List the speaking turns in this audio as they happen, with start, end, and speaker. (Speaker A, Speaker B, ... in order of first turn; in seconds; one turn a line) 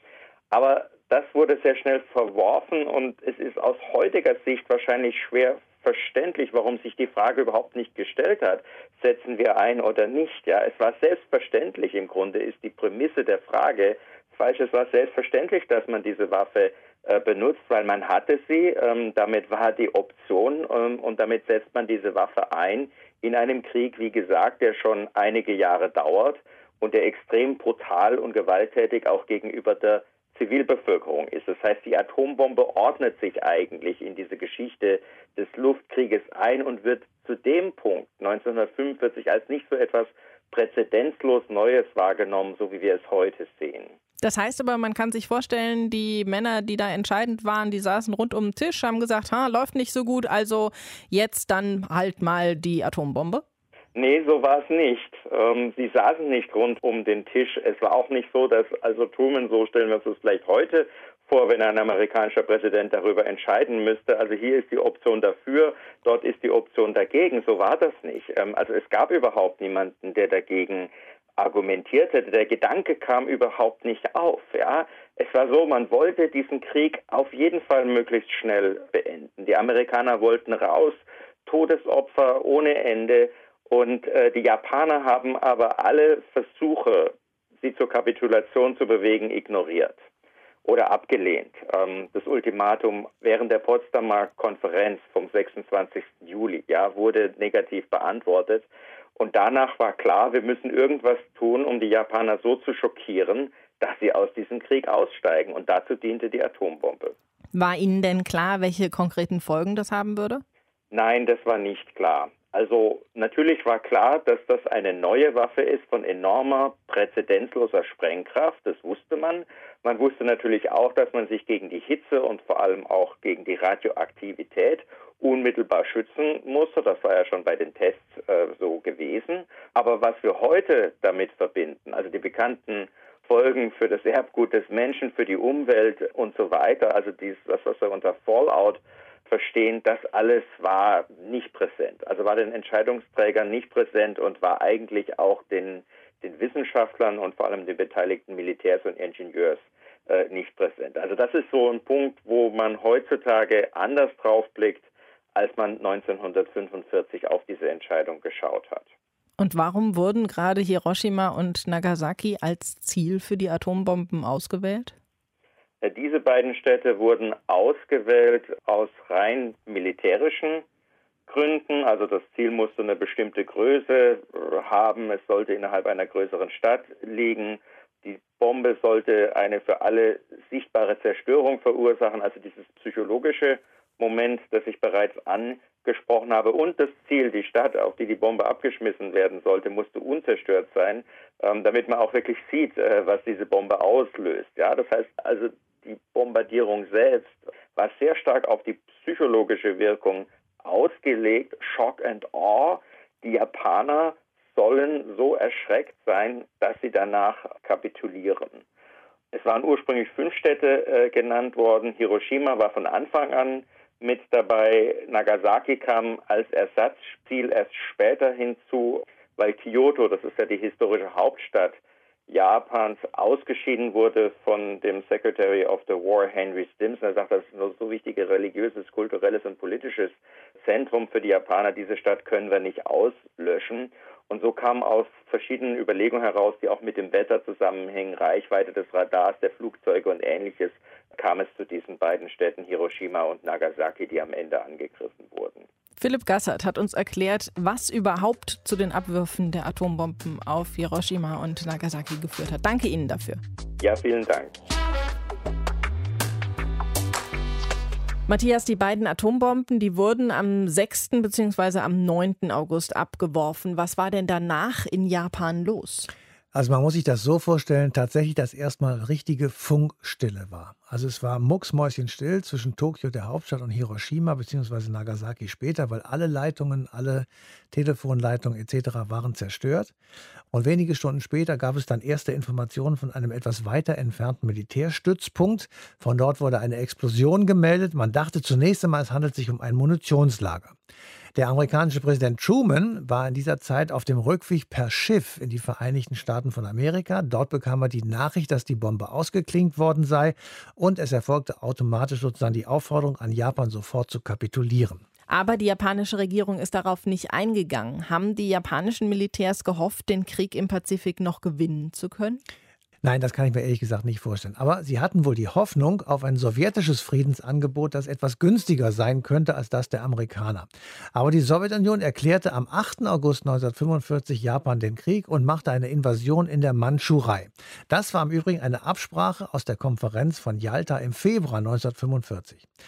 Speaker A: 0.5-43.9
Speaker B: 44.2-53.4
Speaker A: 54.0-90.0
Speaker A: 90.6-107.1
Speaker B: 107.5-110.4
Speaker A: 110.9-158.9
Speaker B: 159.4-164.9
Speaker A: 165.8-170.6
Speaker A: 171.3-208.6
Speaker A: 209.3-221.8
Speaker A: 222.3-245.6
Speaker B: 246.0-253.4
Speaker A: 253.8-254.5
Speaker B: 258.3-266.1
Speaker C: 266.5-279.9
Speaker C: 280.5-290.8
Speaker C: 291.4-305.0
Speaker B: 305.3-312.4
Speaker C: 313.0-332.6